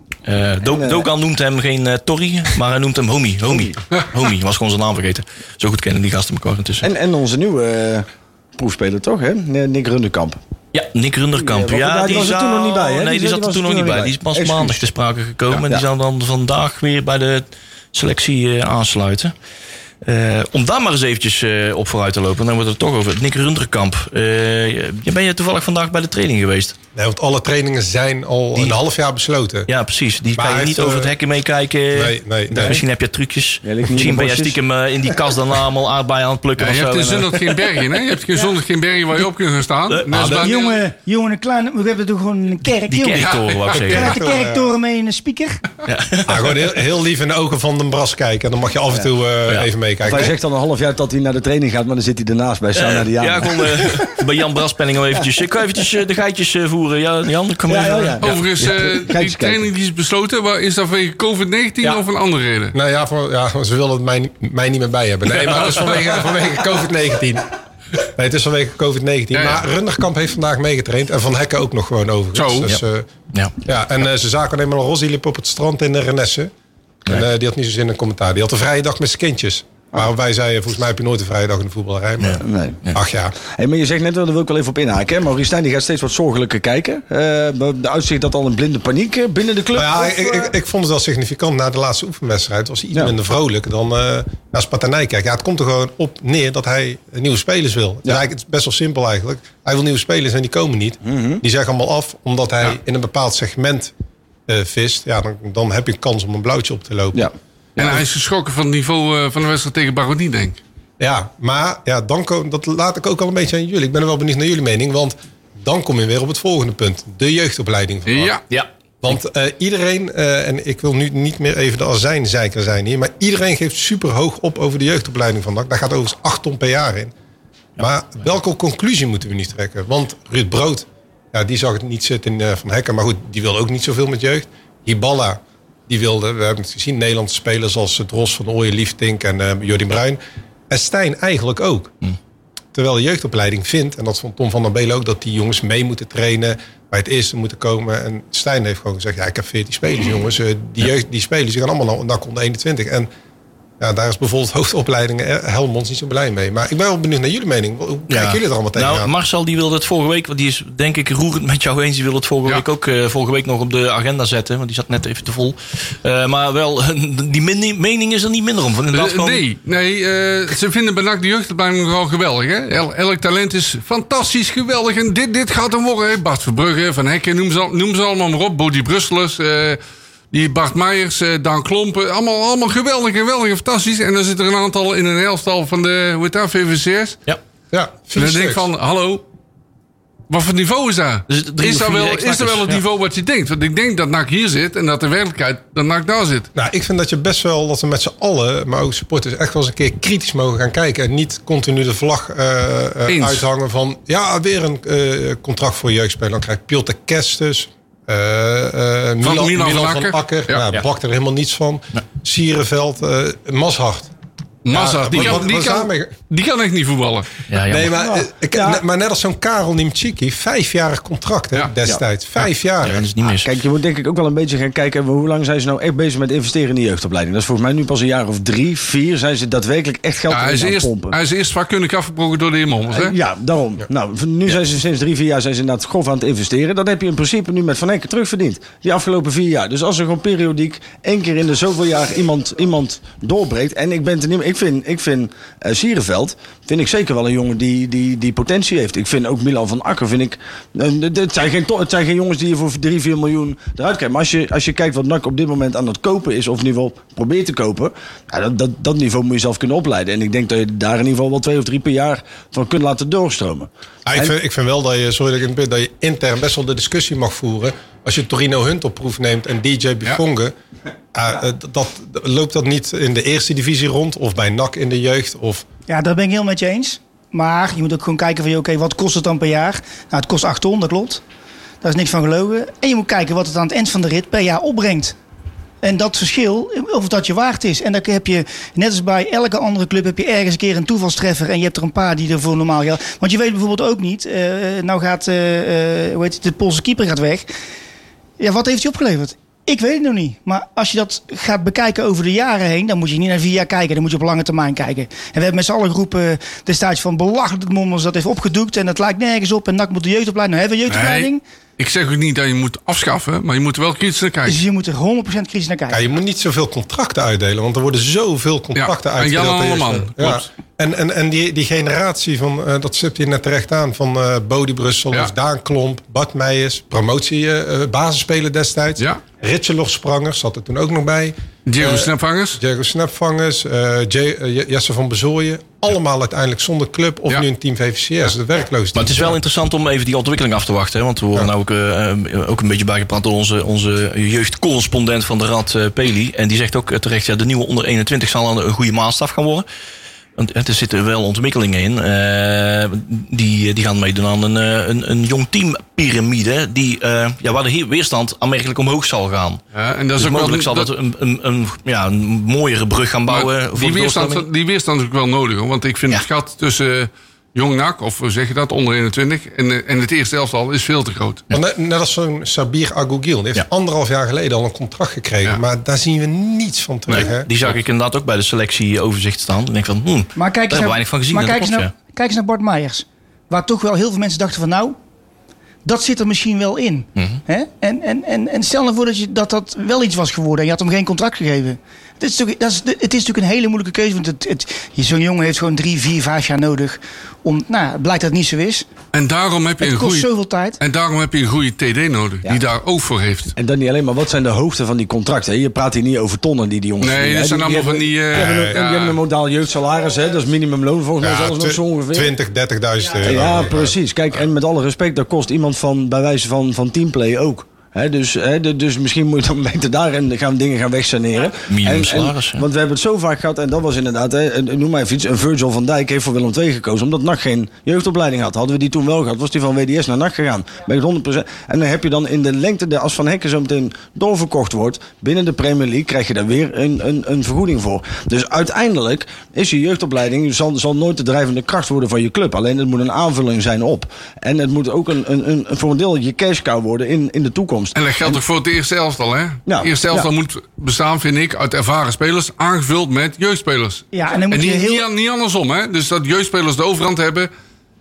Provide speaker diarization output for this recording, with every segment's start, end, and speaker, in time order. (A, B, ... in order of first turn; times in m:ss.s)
0:00.2-0:06.9 A
0:00.6-0:01.1 B
0:03.5-0:03.7 B
0:06.8-0:08.1 B
0:08.6-0:10.4 B
0:10.7-0:19.3 A
0:11.3-0:14.8 B
0:15.5-0:15.8 B
0:20.0-0:26.8 A
0:27.0-0:29.7 C
0:29.7-0:38.4 A
0:30.4-0:31.1 C
0:31.9-0:32.8 C
0:33.6-0:34.6 B
0:36.6-0:40.8 D
0:40.1-0:40.5 C
0:40.2-0:45.6 E
0:42.9-0:44.1 A
0:43.3-0:44.0 D
0:43.9-0:44.7 C
0:45.9-0:46.5 A
0:46.3-0:50.3 C
0:49.5-0:50.3 A
0:50.0-0:54.2 B
0:52.8-0:58.4 A
0:55.1-0:55.8 B
0:57.7-0:59.7 B
0:58.2-1:02.7 D
1:02.7-1:13.1 C
1:05.4-1:06.0 D
1:09.3-1:09.6 D
1:12.4-1:12.7 D
1:13.6-1:16.5 C
1:17.1-1:23.4 C
1:22.2-1:23.0 A
1:22.4-1:22.8 B
1:23.4-1:30.5 B
1:29.7-1:43.9 C
1:41.0-1:41.4 B
1:44.5-1:48.0 C
1:47.1-1:48.0 B
1:47.8-1:50.6 D
1:51.0-1:58.4 C
1:58.1-1:58.4 D
1:59.0-2:07.1 C
2:07.8-2:21.9 C
2:22.7-2:33.1 C
2:33.8-2:39.1 C
2:38.1-2:49.4 A
2:48.9-2:59.8 D
3:00.3-3:07.2 D
3:07.7-3:08.7 C
3:08.2-3:09.2 D
3:10.3-3:16.5 D
3:11.3-3:12.8 A
3:16.6-3:34.1 C
3:23.1-3:23.4 D
3:29.2-3:30.6 D
3:34.6-3:37.4 D
3:34.7-3:36.2 C
3:37.5-3:37.9 A
3:37.7-3:43.0 C
3:37.8-3:38.8 B
3:42.8-3:43.5 A
3:43.2-3:51.2 B
3:50.3-3:53.2 D
3:52.9-4:24.3 B
4:24.1-4:30.6 C
4:31.1-4:35.6 C
4:35.9-4:41.2 E
4:41.8-4:45.2 E
4:45.8-4:57.5 E
4:58.4-5:11.4 E
5:10.9-5:14.6 D
5:14.4-5:16.0 E
5:15.9-5:39.4 C
5:18.8-5:20.5 D
5:31.7-5:32.6 D
5:39.0-5:49.7 A
5:50.4-5:59.6 A
5:59.7-6:00.9 D
6:00.2-6:04.4 A
6:03.3-6:11.4 D
6:11.5-6:17.5 C
6:17.1-6:21.9 A
6:20.4-6:25.0 E
6:25.8-6:38.9 E
6:27.2-6:27.4 A
6:39.1-6:40.3 D
6:39.8-6:40.8 E
6:40.8-6:43.5 D
6:43.6-6:52.3 B
6:47.0-6:49.2 D
6:48.4-6:48.8 C
6:51.2-6:53.9 C
6:53.2-7:28.4 B
7:01.7-7:02.7 A
7:28.0-7:37.5 D
7:29.7-7:30.3 B
7:34.1-7:35.1 E